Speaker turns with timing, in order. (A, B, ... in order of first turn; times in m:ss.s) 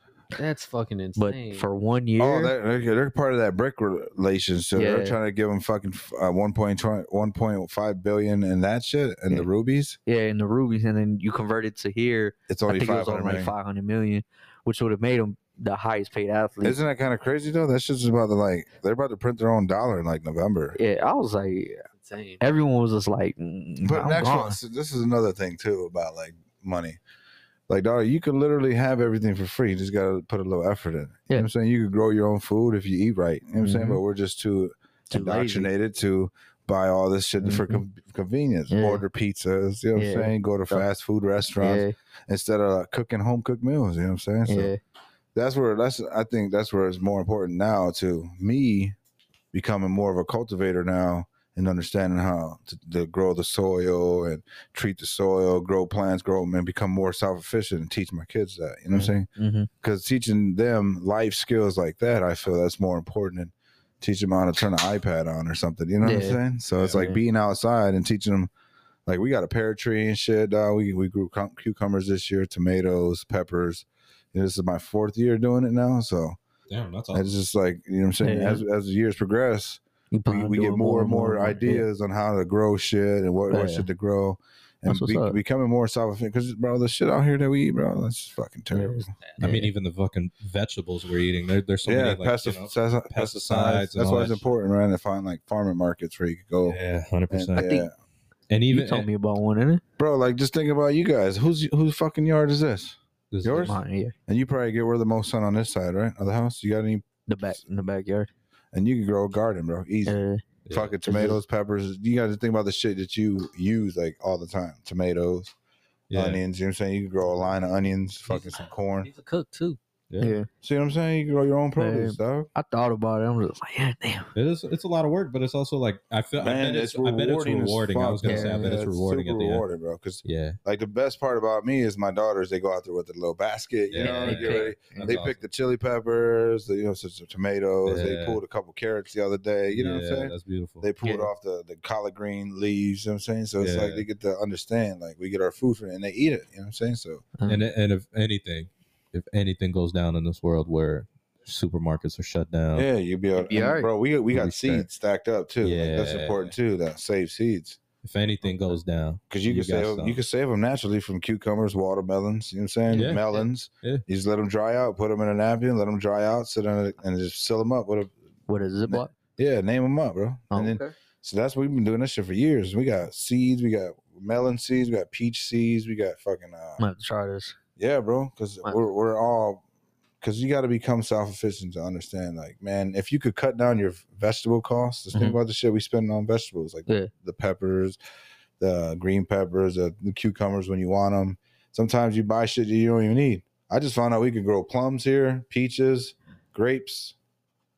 0:00.3-0:01.7 A
0:01.2-0:02.5 B
0:02.2-0:10.0 C
0:04.7-0:05.2 B
0:10.0-0:16.8 B
0:12.5-0:13.5 C
0:16.6-0:20.8 C
0:20.8-0:21.8 B
0:21.9-0:22.4 A
0:22.4-0:24.6 B
0:23.8-0:27.0 C
0:27.7-0:44.7 C
0:33.6-0:34.0 B
0:35.1-0:35.7 B
0:37.4-0:37.8 B
0:38.7-0:39.0 B
0:40.0-0:40.8 B
0:41.6-0:41.9 B
0:44.4-0:44.8 B
0:45.3-0:49.0 C
0:49.5-0:59.3 C
0:58.9-0:59.7 B
0:59.8-1:08.5 C
1:06.0-1:06.4 B
1:06.9-1:07.2 B
1:09.0-1:16.4 C
1:16.7-1:17.3 D
1:17.1-1:29.1 C
1:18.2-1:18.6 B
1:20.1-1:21.8 B
1:23.5-1:23.9 B
1:24.9-1:25.4 B
1:28.7-1:29.7 B
1:29.4-1:34.4 D
1:31.8-1:36.8 C
1:36.6-1:37.7 D
1:37.3-1:37.9 C
1:37.6-1:37.9 B
1:38.5-1:39.1 D
1:38.7-1:39.8 B
1:40.0-1:47.0 C
1:43.3-1:43.8 D
1:43.6-1:44.1 B
1:47.3-1:48.3 B
1:48.7-1:50.2 C
1:50.0-1:50.4 B
1:50.6-1:51.0 D
1:50.7-1:55.5 C
1:51.0-1:51.4 B
1:56.1-1:56.4 D
1:56.1-1:59.1 C
1:58.3-1:59.8 A
2:00.1-2:00.4 D
2:00.2-2:00.5 B
2:00.6-2:02.5 C
2:01.8-2:04.3 B
2:04.3-2:09.6 D
2:06.4-2:27.2 C
2:08.2-2:08.7 B
2:10.2-2:10.6 D
2:13.9-2:15.4 D
2:14.0-2:15.2 B
2:17.8-2:18.4 D
2:19.7-2:20.9 D
2:21.0-2:21.3 B
2:23.6-2:24.0 D
2:27.5-2:32.9 D
2:32.7-2:37.8 C
2:33.4-2:33.9 B
2:34.3-2:34.8 D
2:35.6-2:36.5 D
2:38.0-2:40.2 D
2:38.5-2:38.8 A
2:39.3-2:48.1 C
2:42.9-2:44.0 D
2:48.5-2:49.1 B
2:48.9-2:56.8 C
2:50.5-2:50.9 B
2:56.8-2:57.5 B
2:57.8-2:59.6 C
3:00.2-3:08.0 C
3:08.6-3:17.1 C